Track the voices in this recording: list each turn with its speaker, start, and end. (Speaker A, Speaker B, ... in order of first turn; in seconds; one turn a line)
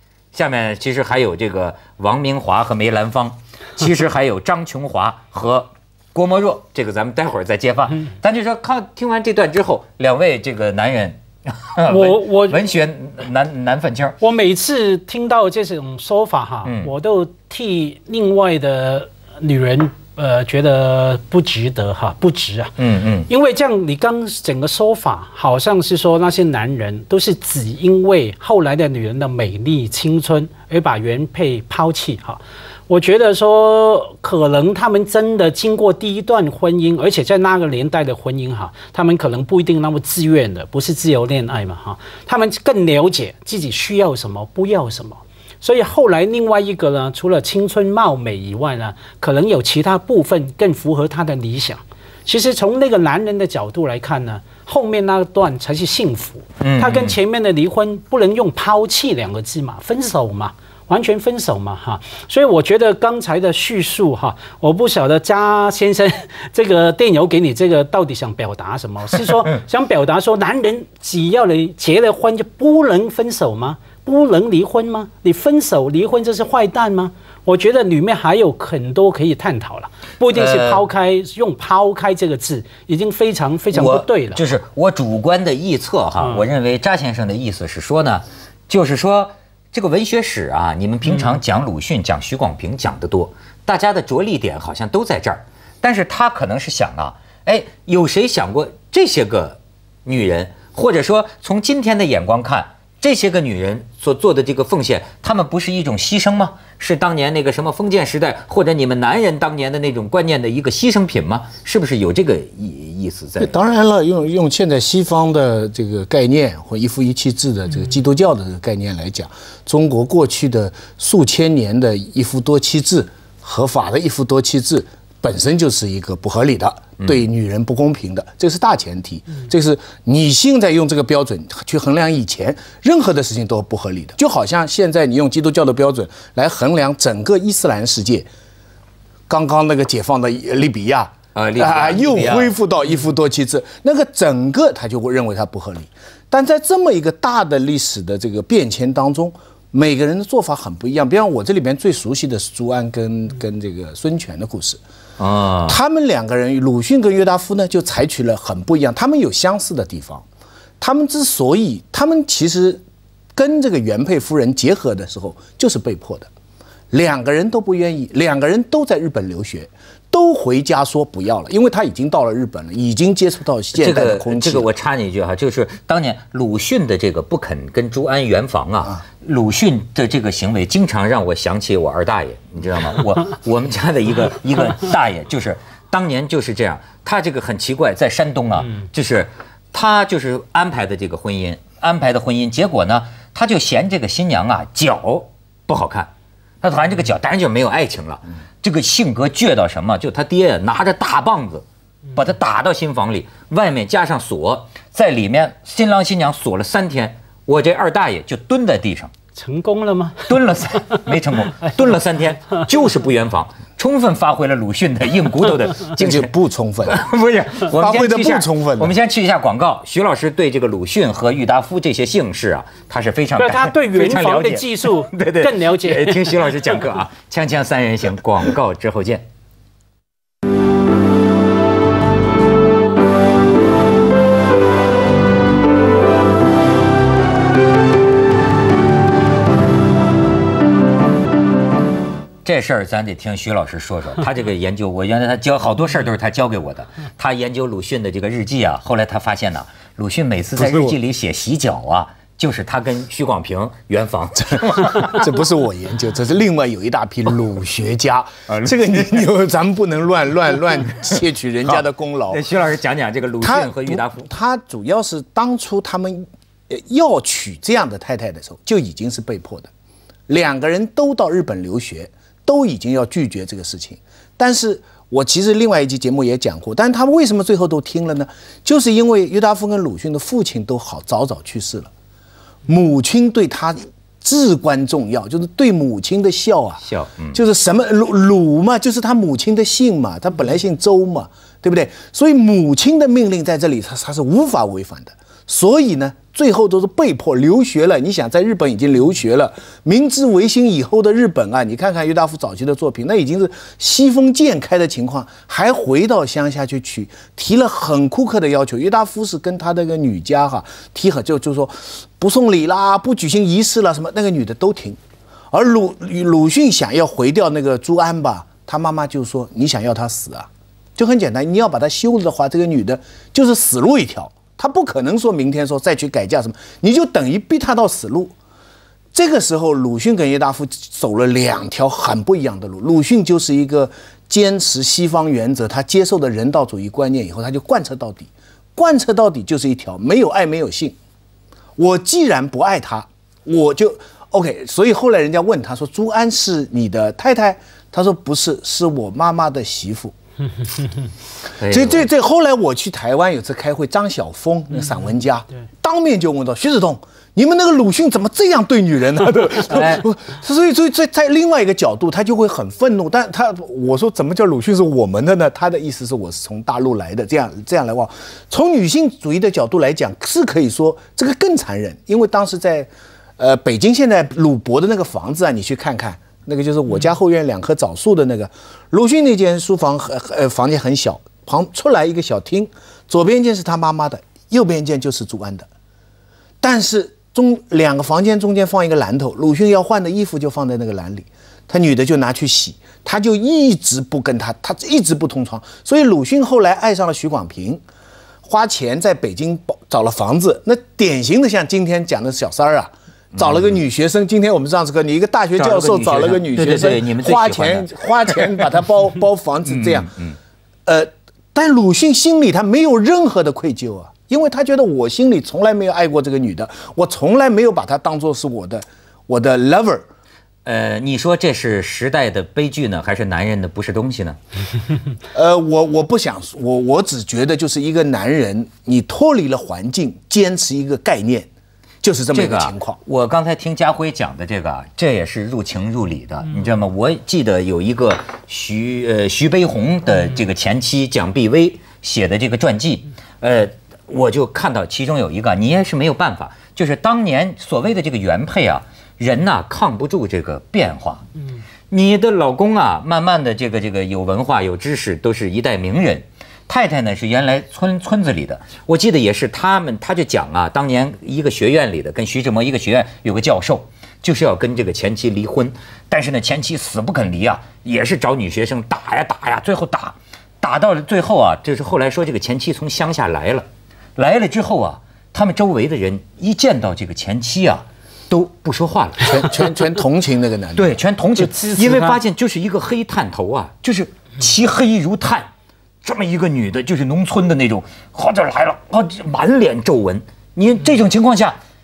Speaker A: 0.3-14.2
Speaker B: 11.8-12.6
Speaker B: 14.2-22.7
Speaker A: 16.6-16.9
Speaker A: 22.8-23.3
Speaker B: 23.3-84.4
Speaker A: 56.6-57.1
Speaker A: 80.3-80.8
Speaker A: 83.7-113.5
Speaker B: 86.2-86.4
Speaker C: 113.4-138.3
Speaker C: 139.3-154.8
Speaker A: 141.3-142.5
Speaker A: 155.2-155.8
Speaker C: 155.7-160.2
Speaker C: 160.8-162.8
Speaker C: 163.3-166.3
Speaker C: 166.9-174.7
Speaker A: 173.7-196.1
Speaker A: 196.6-201.6
Speaker A: 202.2-209.1
Speaker B: 209.3-210.3
Speaker A: 210.3-216.3
Speaker C: 215.9-217.0
Speaker A: 216.8-229.2
Speaker C: 217.7-218.9
Speaker B: 223.4-226.3
Speaker A: 242.4-255.3
Speaker C: 250.6-250.9
Speaker C: 254.8-262.4
Speaker A: 258.5-259.3
Speaker A: 261.6-264.2
Speaker C: 263.4-269.7
Speaker C: 270.3-281.9
Speaker C: 282.6-286.8
Speaker A: 286.8-287.4
Speaker C: 287.3-315.0
Speaker C: 315.5-328.3
Speaker C: 329.1-341.0
Speaker C: 341.8-350.1
Speaker A: 351.6-352.1
Speaker C: 351.6-385.7
Speaker A: 359.7-360.1
Speaker C: 386.6-397.8
Speaker C: 398.4-410.1
Speaker A: 403.3-403.7
Speaker A: 405.6-408.6
Speaker A: 409.6-410.4
Speaker C: 410.9-420.1
Speaker A: 420.6-424.4
Speaker C: 425.3-431.5
Speaker C: 432.0-433.0
Speaker A: 432.3-451.3
Speaker A: 451.9-479.6
Speaker C: 479.2-481.0
Speaker A: 480.8-485.5
Speaker B: 481.4-482.2
Speaker A: 486.0-491.6